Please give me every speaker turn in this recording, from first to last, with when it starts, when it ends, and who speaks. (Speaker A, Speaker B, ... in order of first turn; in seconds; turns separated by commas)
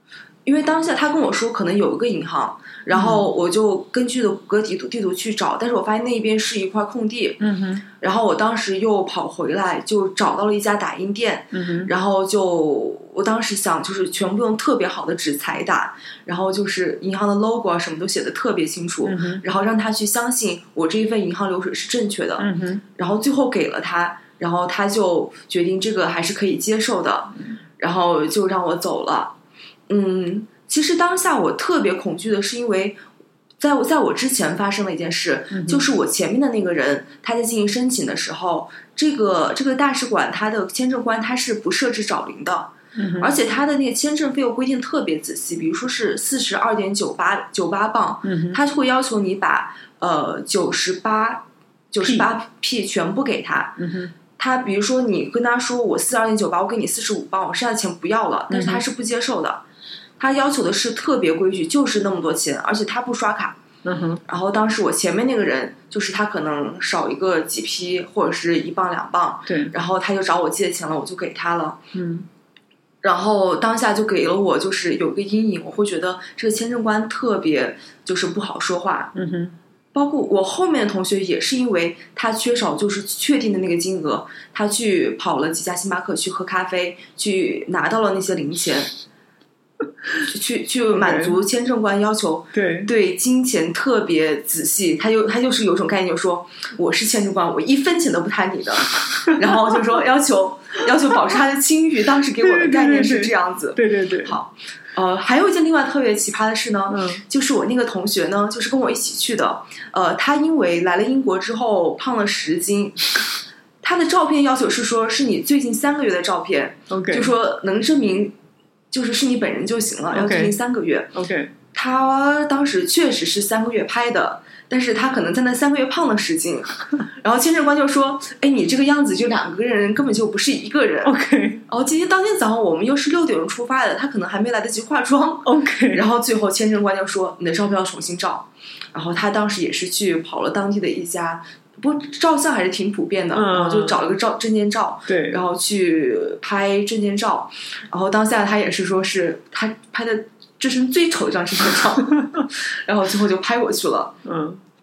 Speaker A: 0.5-7.4, Speaker B: 2.9-3.3, Speaker B: 7.4-7.8, Speaker A: 8.0-29.3, Speaker B: 11.5-11.9, Speaker B: 19.0-19.4, Speaker B: 22.4-22.8, Speaker A: 29.9-33.0, Speaker A: 33.6-53.8, Speaker B: 35.5-35.8, Speaker B: 43.0-43.3, Speaker B: 48.2-48.6, Speaker B: 52.0-52.3, Speaker B: 53.8-54.1, Speaker A: 54.4-59.6, Speaker B: 58.5-58.9, Speaker A: 60.2-63.6, Speaker B: 63.8-64.2, Speaker A: 64.3-71.8, Speaker B: 69.5-69.7, Speaker B: 71.9-72.3, Speaker A: 73.0-79.1, Speaker B: 79.1-79.5, Speaker A: 79.9-88.9, Speaker A: 90.3-113.1, Speaker B: 90.9-91.4, Speaker B: 92.5-92.9, Speaker B: 102.4-104.4, Speaker B: 106.9-107.2, Speaker A: 113.8-118.4, Speaker B: 116.9-117.3, Speaker A: 118.9-121.2, Speaker B: 120.1-120.5, Speaker B: 121.1-121.5, Speaker A: 121.7-131.1, Speaker B: 131.0-131.6, Speaker A: 131.7-154.1, Speaker B: 135.4-136.0, Speaker B: 143.3-144.0, Speaker B: 145.1-145.4, Speaker B: 154.2-154.6